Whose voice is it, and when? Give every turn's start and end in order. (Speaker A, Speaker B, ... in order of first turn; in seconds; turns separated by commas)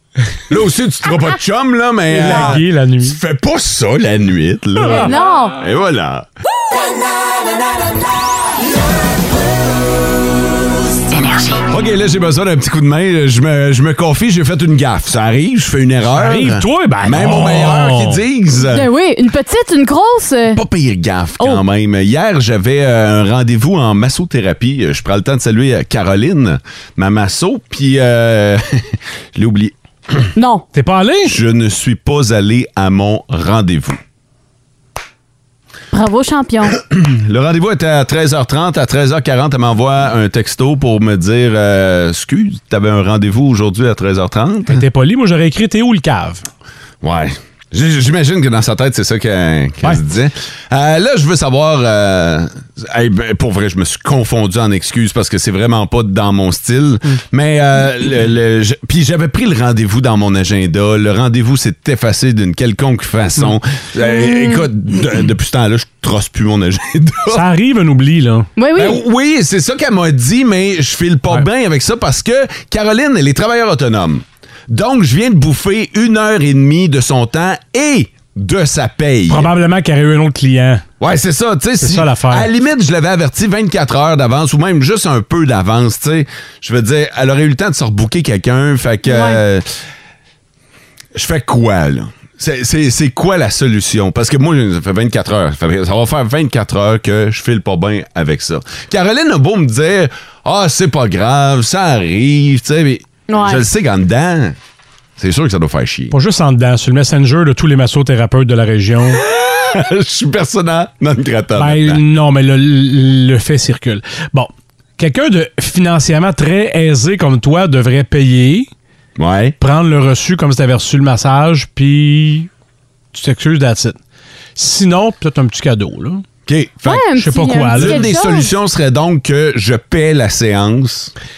Speaker A: 0.5-6.2, Speaker B: 2.1-3.2, Speaker C: 4.9-5.6, Speaker A: 11.7-18.9, Speaker B: 16.1-18.2, Speaker C: 18.6-20.6, Speaker A: 20.6-28.6, Speaker A: 29.4-29.7, Speaker C: 30.3-30.6, Speaker B: 30.7-31.4, Speaker A: 31.2-34.0, Speaker C: 35.9-36.8, Speaker A: 37.0-44.8, Speaker B: 44.7-46.5, Speaker A: 47.0-67.4, Speaker C: 64.2-64.6, Speaker B: 67.3-68.5, Speaker C: 68.6-69.0, Speaker A: 68.7-79.5, Speaker B: 79.3-80.8, Speaker A: 81.0-89.6, Speaker B: 81.8-82.5, Speaker C: 89.0-89.4, Speaker A: 91.1-104.5, Speaker C: 103.3-103.6, Speaker A: 105.2-106.1, Speaker B: 106.1-109.2, Speaker A: 109.7-112.0, Speaker B: 111.6-118.7, Speaker A: 119.2-119.5, Speaker B: 119.6-122.5, Speaker B: 123.1-124.0, Speaker B: 124.5-126.2, Speaker A: 126.5-127.0, Speaker C: 126.8-128.5, Speaker B: 127.2-128.1, Speaker A: 127.7-131.1